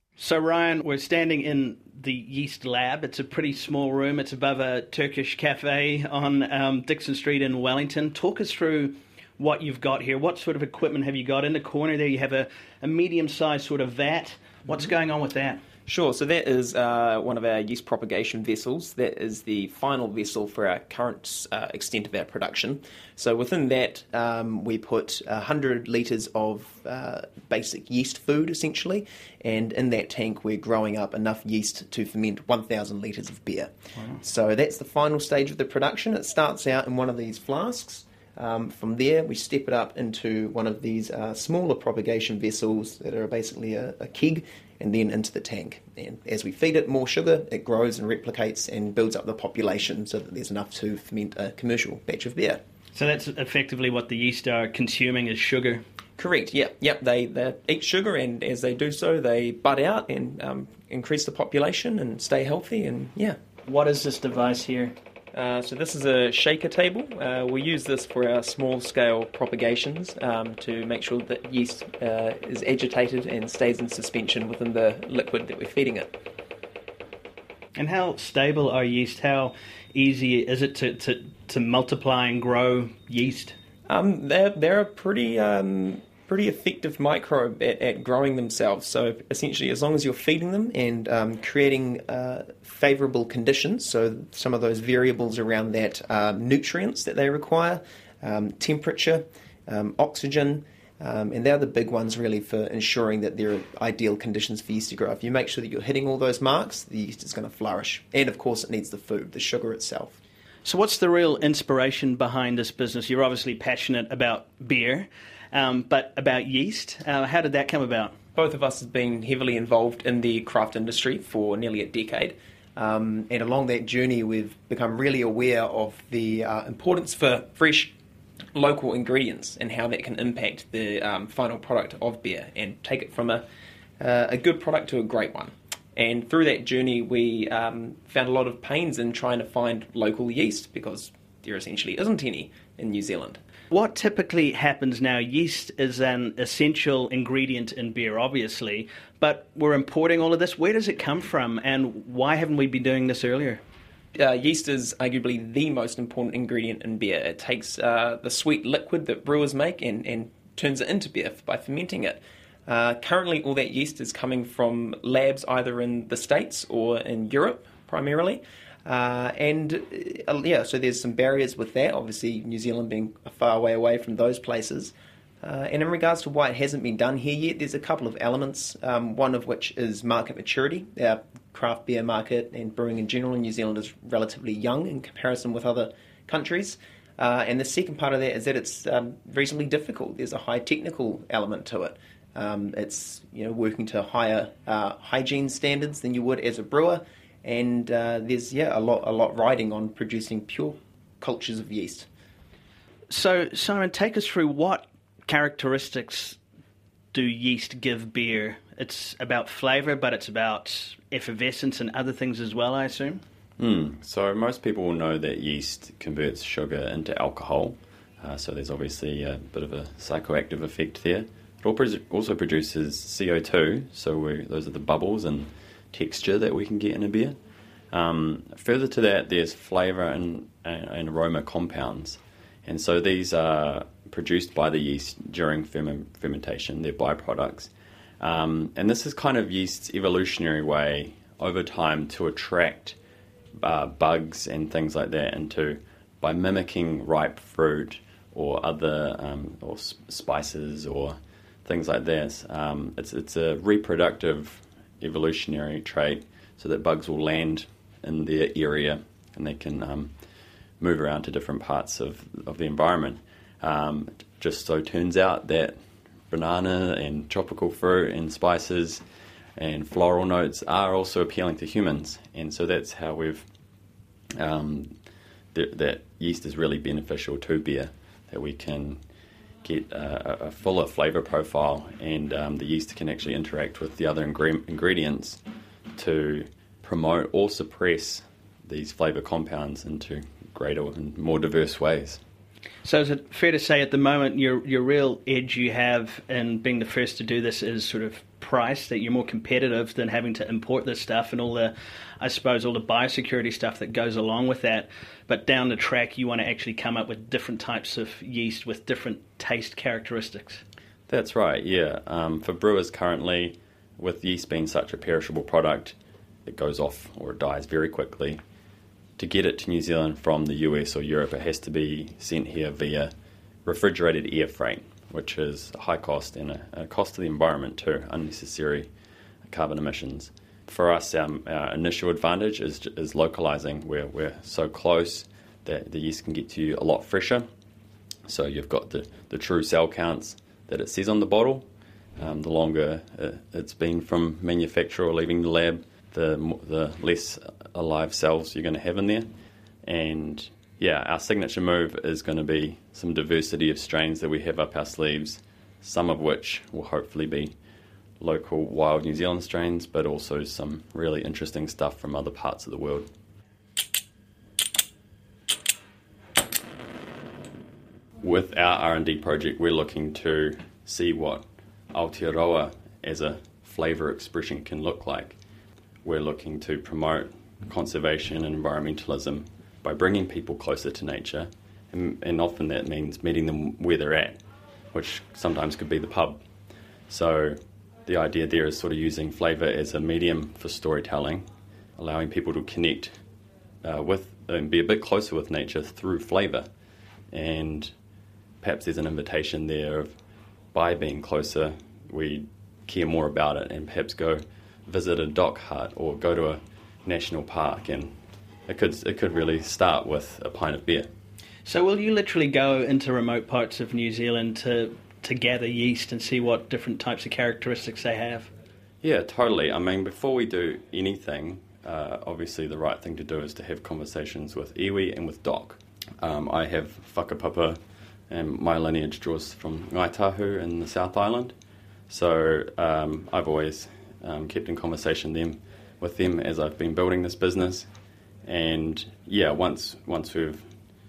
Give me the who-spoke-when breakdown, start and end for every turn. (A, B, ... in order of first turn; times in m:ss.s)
0:00.2-0:15.6 A
0:15.9-0:52.6 B
0:52.9-0:55.8 A
0:56.2-1:03.4 B
1:03.6-1:05.0 A
1:05.3-1:16.1 B
1:17.8-1:23.6 A
1:23.9-1:50.2 B
1:50.6-1:58.2 A
1:58.3-2:08.0 B
2:08.5-2:13.5 B
2:14.0-2:23.4 B
2:23.7-2:33.6 A
2:34.2-3:22.1 B
3:23.1-3:26.4 A
3:27.1-3:33.2 A
3:33.6-3:47.4 C
3:47.9-4:03.0 C
4:03.5-4:20.1 C
4:20.8-4:25.8 C
4:26.3-4:29.0 C
4:29.6-4:33.5 C
4:34.4-4:35.0 C
4:35.5-4:39.0 C
4:39.6-4:45.4 C
4:46.0-4:52.2 C
4:52.8-5:10.6 A
5:11.1-5:16.0 C
5:16.5-5:18.4 C
5:19.2-5:23.1 C
5:23.6-5:28.9 C
5:29.5-5:37.5 C
5:38.3-5:49.3 C
5:49.8-5:57.5 C
5:58.2-6:03.1 C
6:08.2-6:15.4 C
6:16.0-6:24.4 C
6:24.9-6:26.4 C
6:27.1-6:31.5 C
6:32.0-6:33.1 C
6:33.8-6:36.7 C
6:37.3-6:37.9 C
6:38.6-6:40.1 C
6:40.7-6:48.2 C
6:48.7-6:51.1 C
6:51.6-6:58.5 A
6:59.0-7:07.8 C
7:08.3-7:11.5 C
7:12.1-7:17.9 C
7:18.4-7:20.6 C